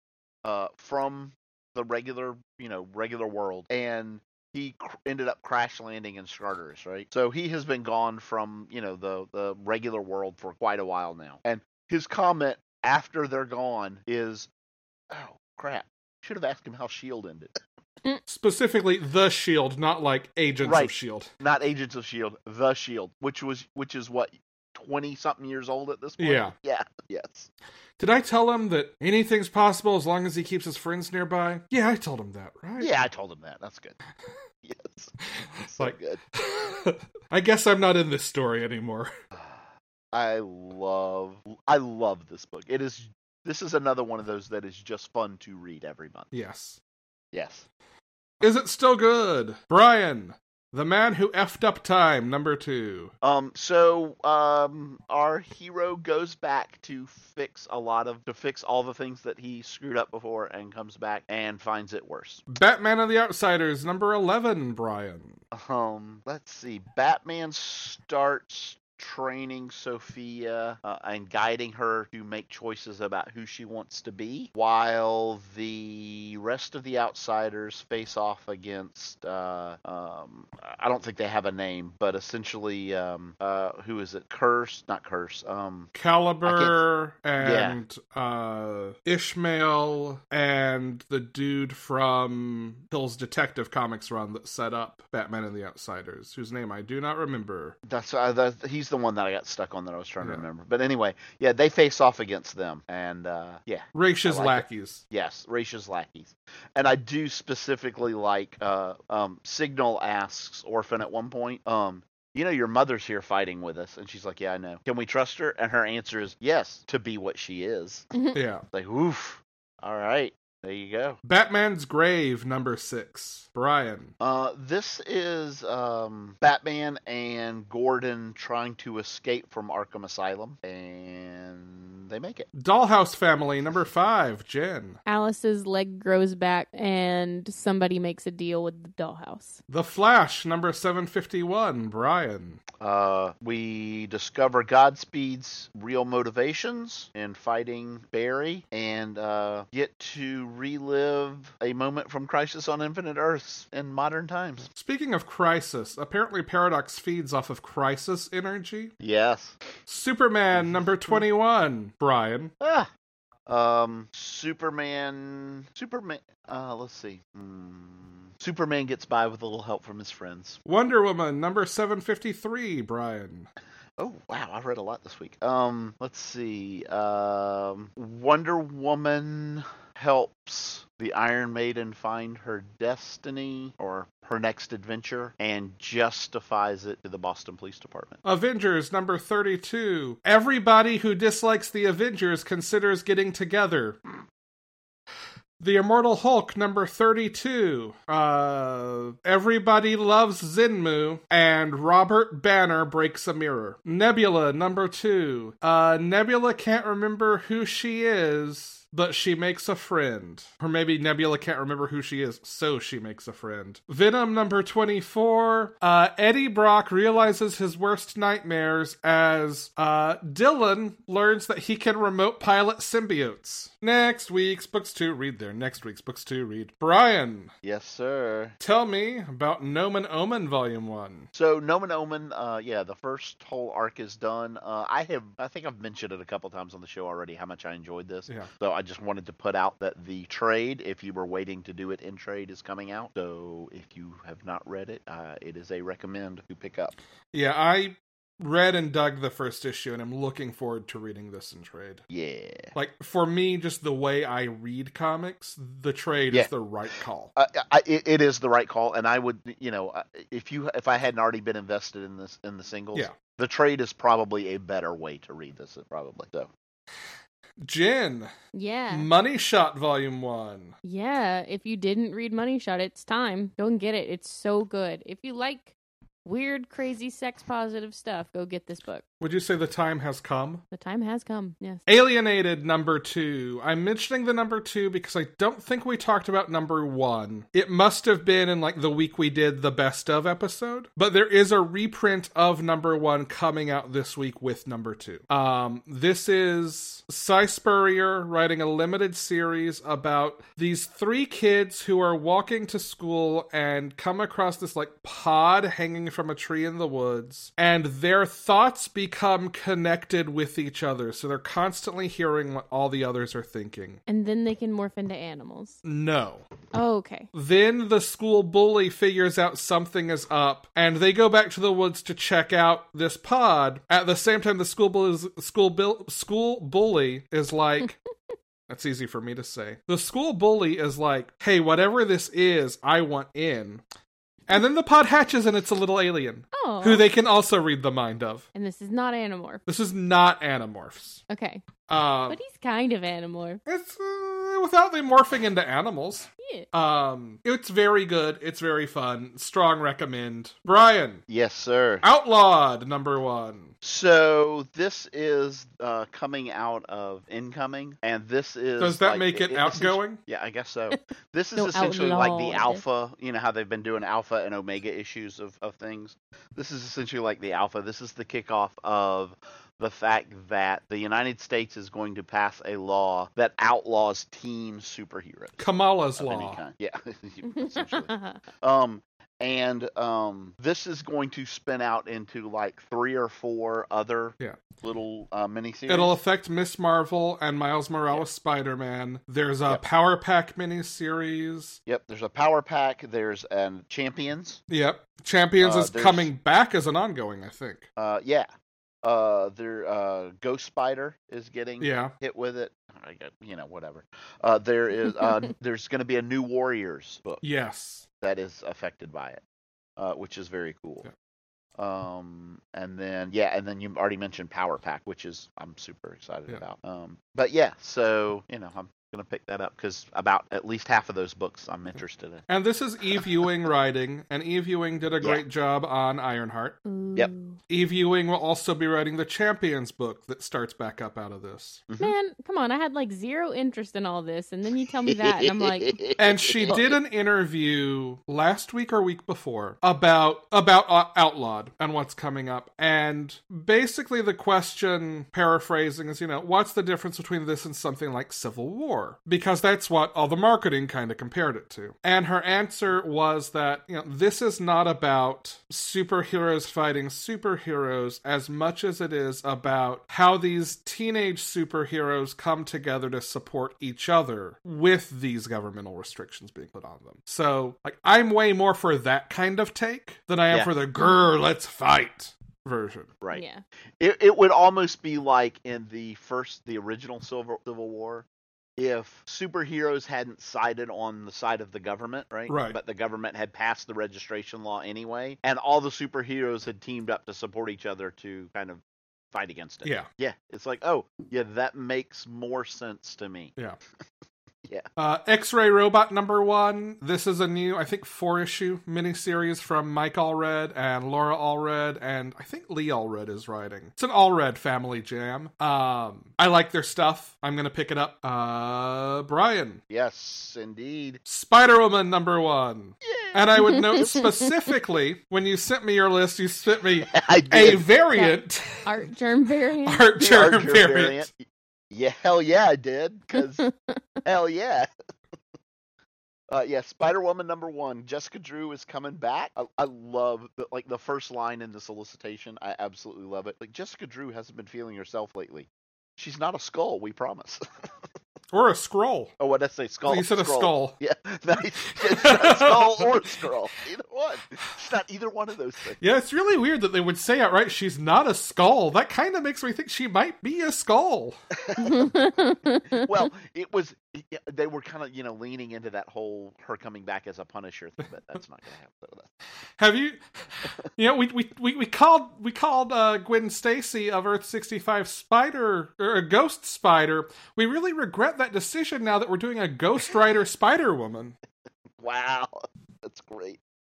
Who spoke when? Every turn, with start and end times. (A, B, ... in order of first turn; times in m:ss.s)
0:00.4-0:14.5 A
0:15.1-0:17.5 A
0:18.3-0:21.3 B
0:20.6-0:27.5 A
0:26.2-0:26.5 B
0:28.0-0:32.9 B
0:32.8-0:34.0 A
0:34.6-0:36.2 A
0:35.4-0:39.1 B
0:39.3-0:46.3 A
0:46.3-0:46.8 B
0:47.3-0:47.7 A
0:48.4-0:53.1 B
0:53.2-1:02.4 A
1:02.5-1:05.4 B
1:05.5-1:25.9 A
1:25.9-1:37.8 B
1:26.4-1:26.8 A
1:27.4-1:27.8 A
1:37.9-1:58.1 A
1:44.0-1:45.0 B
1:58.3-1:58.6 B
1:58.7-2:01.2 A
2:01.2-2:04.1 B
2:04.2-2:12.5 A
2:12.6-2:15.0 B
2:15.1-2:19.6 C
2:19.7-2:22.6 B
2:22.8-2:34.7 A
2:34.7-2:38.9 B
2:39.0-2:39.6 A
2:39.9-2:42.5 B
2:40.5-2:41.3 A
2:42.6-2:42.9 A
2:43.5-2:50.6 A
2:50.7-2:53.5 B
2:54.0-3:08.2 A
3:08.2-3:14.0 B
3:15.6-3:47.5 B
3:47.6-3:48.6 A
3:48.6-3:51.3 B
3:51.4-4:06.9 A
4:07.3-4:12.0 B
4:12.1-4:12.7 A
4:12.8-4:17.3 B
4:17.4-4:26.5 A
4:27.6-4:28.3 B
4:28.5-4:29.1 C
4:28.9-4:30.8 B
4:30.8-4:35.7 C
4:36.2-4:39.0 C
4:39.2-4:40.6 B
4:40.7-4:41.8 C
4:41.9-5:14.0 B
5:14.1-5:15.8 C
5:15.8-5:16.5 B
5:16.7-5:17.3 C
5:17.3-5:28.0 B
5:28.7-5:33.8 B
5:34.5-5:38.4 B
5:36.5-5:37.1 C
5:38.6-5:39.6 C
5:39.7-5:41.2 B
5:41.3-5:41.7 C
5:41.9-5:42.4 B
5:42.3-5:43.6 C
5:43.7-5:51.2 B
5:46.4-5:46.7 C
5:51.3-5:52.0 A
5:52.0-5:53.7 B
5:53.8-6:26.2 A
5:58.8-6:00.2 B
6:01.6-6:02.8 C
6:15.6-6:16.6 B
6:17.5-6:18.4 C
6:25.9-6:31.8 B
6:31.9-6:34.6 A
6:34.7-6:37.9 B
6:35.6-6:36.3 A
6:38.0-6:38.5 A
6:39.0-6:47.4 A
6:41.8-6:42.1 B
6:47.4-6:48.1 B
6:48.2-6:49.4 A
6:50.0-6:51.1 A
6:51.8-7:02.5 A
7:02.5-7:06.8 B
7:06.8-7:07.6 C
7:07.7-7:11.8 B
7:11.9-7:12.1 A
7:12.0-7:16.8 C
7:15.1-7:17.0 A
7:16.2-7:53.1 B
7:53.3-7:53.6 C
7:54.0-7:58.3 A
7:58.8-8:13.5 A
8:02.5-8:02.8 B
8:15.0-8:29.8 B
8:29.9-8:31.2 A
8:31.3-8:38.9 B
8:33.1-8:33.4 A
8:33.6-8:34.5 C
8:37.1-8:37.8 A
8:38.1-8:40.1 C
8:39.9-8:41.3 B
8:40.2-8:41.4 A
8:41.9-8:43.7 A
8:43.6-8:44.0 C
8:44.2-8:44.9 A
8:46.5-8:57.6 A
8:58.5-8:59.3 B
8:59.4-9:06.0 A
9:00.1-9:01.0 B
9:01.9-9:03.1 B
9:06.0-9:11.4 B
9:11.6-9:12.3 A
9:11.8-9:13.1 C
9:12.9-9:19.3 A
9:19.8-9:20.2 B
9:20.9-9:31.4 B
9:32.0-9:33.6 A